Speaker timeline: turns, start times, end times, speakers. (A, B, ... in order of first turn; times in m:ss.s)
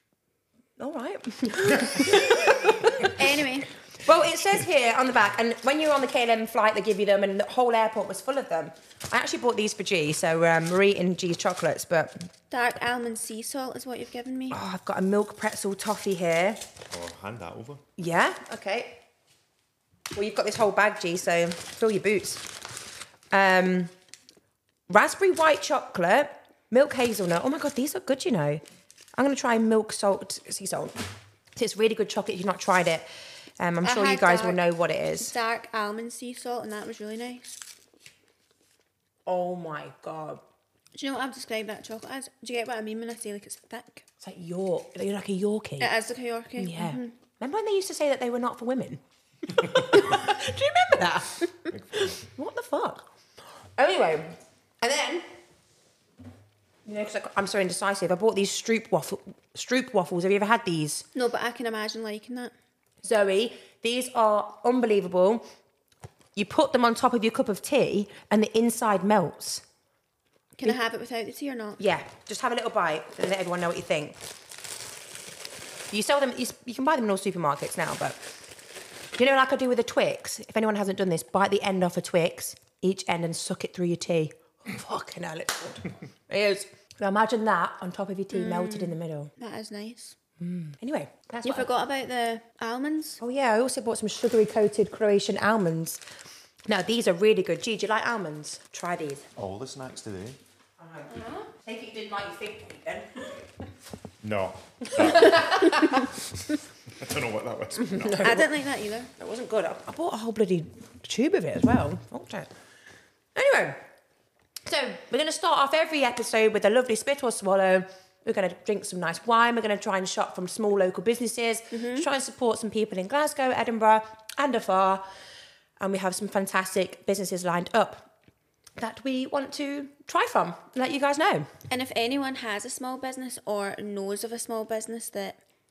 0:00.8-0:03.4 A
0:03.0-0:03.7 B
0:04.0-0:12.3 A
0:12.5-0:14.6 B
0:14.5-0:16.6 A
0:16.9-0:17.8 C
0:18.0-0:19.0 A
0:20.1-0:22.4 A
0:23.3-0:23.9 A
0:24.9-0:28.6 A
0:29.2-0:30.9 A
0:31.5-0:33.1 A
0:33.6-0:35.3 A
0:33.8-0:34.6 B
0:35.2-0:37.6 B
0:39.2-0:40.4 A
0:40.9-0:44.1 B
0:44.2-0:45.9 A
0:45.8-0:47.1 B
0:46.6-0:53.1 A
0:51.7-0:52.2 C
0:53.8-0:55.3 A
0:56.8-1:01.1 A
1:01.1-1:02.5 B
1:03.0-1:05.4 A
1:06.3-1:09.6 A
1:10.6-1:11.8 B
1:11.8-1:14.2 A
1:15.9-1:18.2 A
1:19.2-1:29.3 A
1:28.3-1:30.2 B
1:30.4-1:31.7 A
1:31.4-1:33.2 B
1:33.2-1:36.0 A
1:36.7-1:39.2 A
1:39.4-1:40.4 C
1:40.8-1:43.5 A
1:41.1-1:41.5 B
1:44.2-1:46.0 C
1:44.8-1:46.1 A
1:45.2-1:46.0 B
1:46.9-1:48.4 C
1:47.8-1:48.5 A
1:48.2-1:49.1 B
1:49.2-1:52.5 A
1:53.3-1:53.8 A
1:54.6-2:05.0 A
2:01.7-2:02.1 B
2:05.8-2:08.1 A
2:08.8-2:11.5 A
2:11.7-2:15.4 B